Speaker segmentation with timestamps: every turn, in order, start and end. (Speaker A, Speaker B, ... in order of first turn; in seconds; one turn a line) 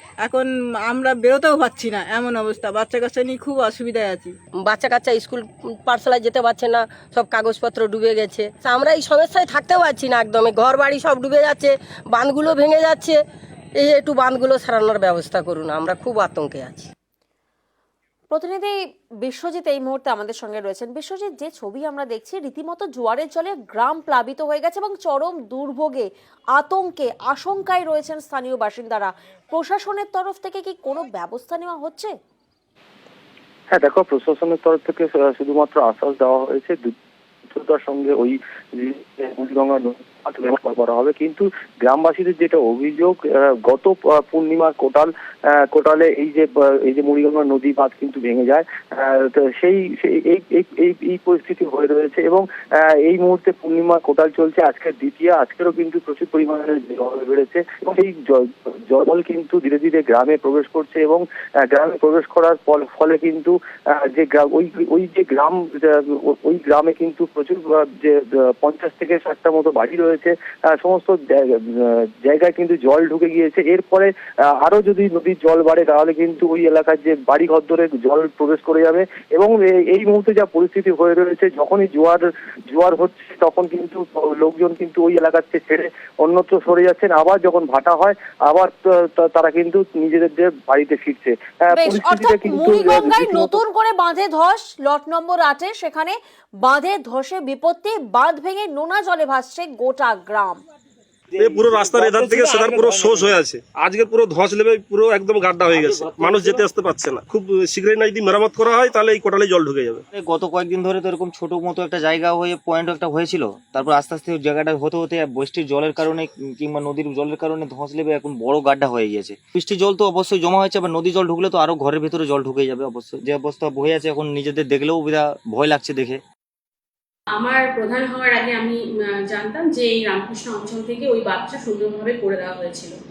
Speaker A: 0.2-4.3
Speaker B: 4.6-13.2
Speaker B: 13.8-16.9
Speaker C: 18.3-32.1
Speaker D: 33.7-36.9
Speaker D: 37.5-93.6
Speaker C: 91.7-100.6
Speaker E: 101.4-103.3
Speaker F: 101.4-110.0
Speaker E: 105.7-106.6
Speaker E: 110.1-126.2
Speaker G: 127.3-132.9